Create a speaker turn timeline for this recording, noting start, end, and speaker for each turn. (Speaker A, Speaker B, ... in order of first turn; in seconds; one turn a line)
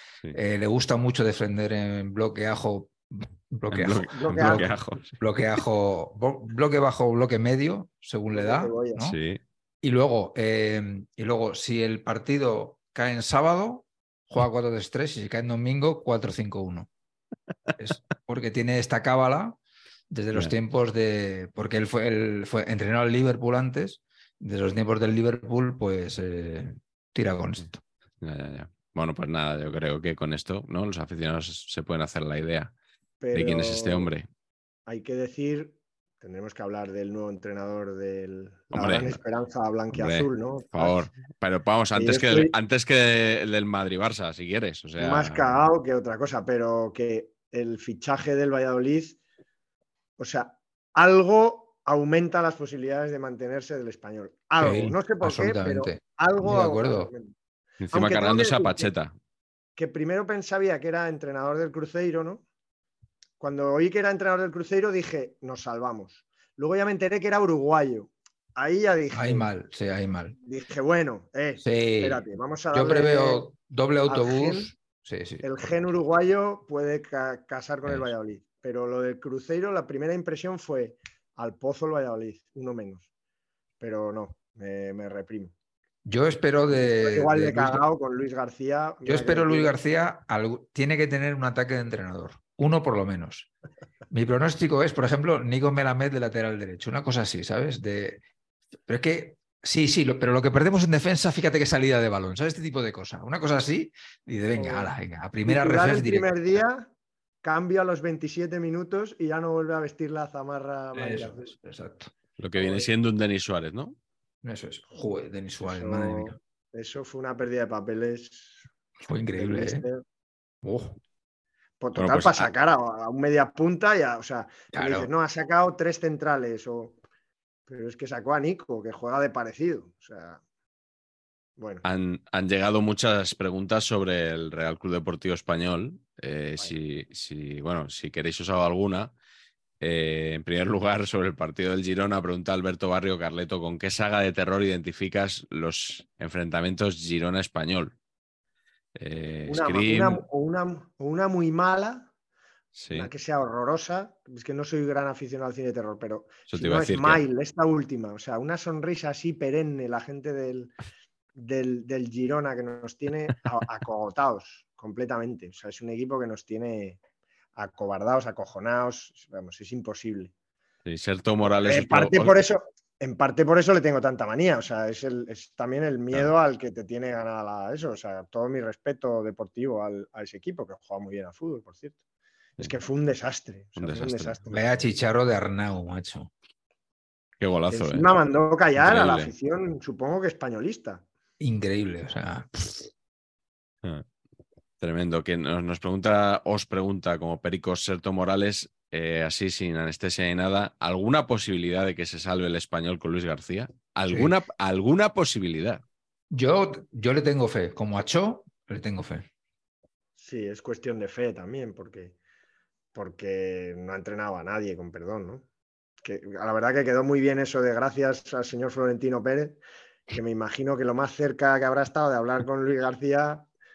Speaker A: 0.3-9.2
Speaker B: 3.7-5.2
Speaker C: 4.1-4.7
Speaker C: 8.3-9.1
Speaker B: 9.0-9.4
Speaker A: 9.8-16.9
Speaker A: 17.8-19.6
Speaker A: 20.1-27.8
Speaker B: 28.2-32.7
Speaker C: 33.2-34.1
Speaker B: 33.3-34.3
Speaker C: 34.9-41.1
Speaker B: 38.7-39.2
Speaker B: 39.9-45.6
Speaker C: 42.0-42.5
Speaker C: 45.0-49.2
Speaker C: 50.2-57.3
Speaker A: 54.6-57.1
Speaker B: 57.8-59.1
Speaker C: 57.9-58.9
Speaker C: 59.8-62.4
Speaker C: 63.4-69.5
Speaker A: 69.1-70.4
Speaker C: 70.5-73.5
Speaker A: 71.6-75.8
Speaker C: 74.1-74.7
Speaker C: 75.4-83.1
Speaker C: 83.8-85.5
Speaker A: 86.1-87.8
Speaker C: 86.7-89.8
Speaker A: 89.0-93.5
Speaker A: 94.1-98.2
Speaker A: 98.9-106.4
Speaker C: 104.6-104.9
Speaker C: 105.5-106.9
Speaker C: 107.4-111.5
Speaker A: 110.9-112.1
Speaker B: 112.4-114.0
Speaker C: 112.5-112.9
Speaker A: 114.4-116.4
Speaker C: 115.6-118.7
Speaker A: 119.1-119.8
Speaker C: 119.4-120.0
Speaker A: 120.6-121.0
Speaker C: 121.8-127.0
Speaker B: 122.0-122.5
Speaker A: 124.7-125.1
Speaker C: 127.7-130.4
Speaker C: 131.6-131.8
Speaker B: 131.8-139.1
Speaker B: 139.8-147.9
Speaker B: 148.9-150.2
Speaker C: 149.4-152.1
Speaker B: 152.8-153.1
Speaker C: 152.9-160.7
Speaker B: 156.5-157.2
Speaker C: 161.4-167.0
Speaker C: 167.6-170.3
Speaker B: 170.8-172.3
Speaker C: 171.6-182.0
Speaker C: 182.6-184.9
Speaker B: 183.8-184.4
Speaker A: 184.5-186.3
Speaker B: 187.4-188.1
Speaker C: 187.7-191.1
Speaker B: 188.8-189.3
Speaker A: 191.4-192.9
Speaker B: 194.8-205.8
Speaker A: 206.3-209.3
Speaker C: 210.2-212.2
Speaker C: 212.9-215.4
Speaker C: 216.0-219.6
Speaker C: 220.1-223.5